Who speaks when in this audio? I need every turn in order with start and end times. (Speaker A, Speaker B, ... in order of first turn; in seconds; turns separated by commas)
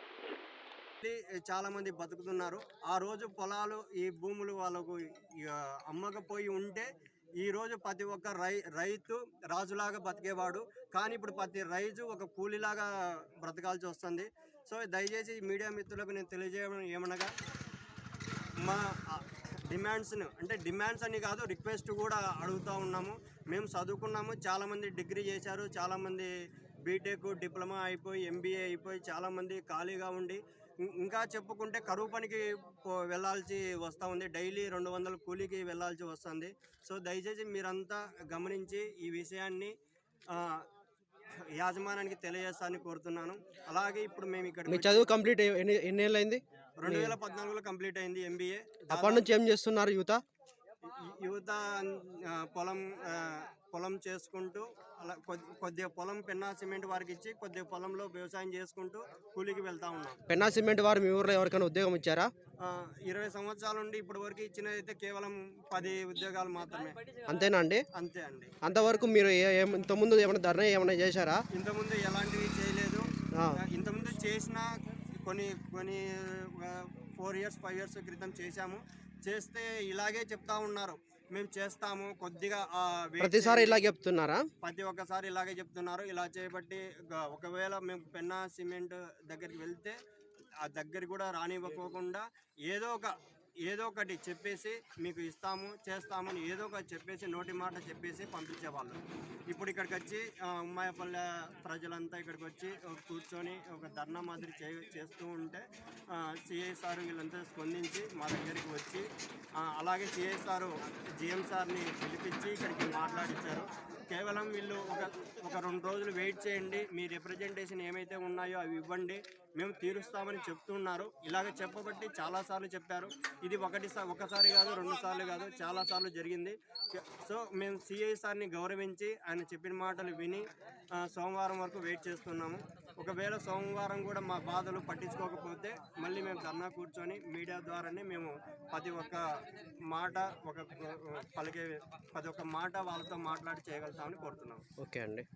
Speaker A: 1.0-6.9, Speaker A: 7.4-12.9, Speaker A: 13.4-17.3, Speaker A: 18.6-26.3, Speaker A: 26.9-30.4, Speaker A: 31.0-39.7, Speaker A: 40.3-40.6, Speaker A: 41.6-45.1, Speaker B: 44.7-47.2, Speaker A: 46.8-49.3, Speaker B: 48.9-50.2, Speaker A: 50.9-60.2, Speaker B: 60.3-62.3, Speaker A: 62.6-67.0, Speaker B: 67.3-67.8, Speaker A: 67.9-68.5, Speaker B: 68.6-71.4, Speaker A: 71.5-73.0, Speaker A: 73.6-74.7, Speaker A: 75.2-83.8, Speaker B: 83.2-84.4, Speaker A: 84.6-90.0, Speaker A: 90.7-93.1, Speaker A: 93.7-99.0, Speaker A: 99.5-109.0, Speaker A: 109.6-130.4, Speaker A: 131.0-139.2, Speaker A: 139.9-144.6, Speaker B: 144.8-145.3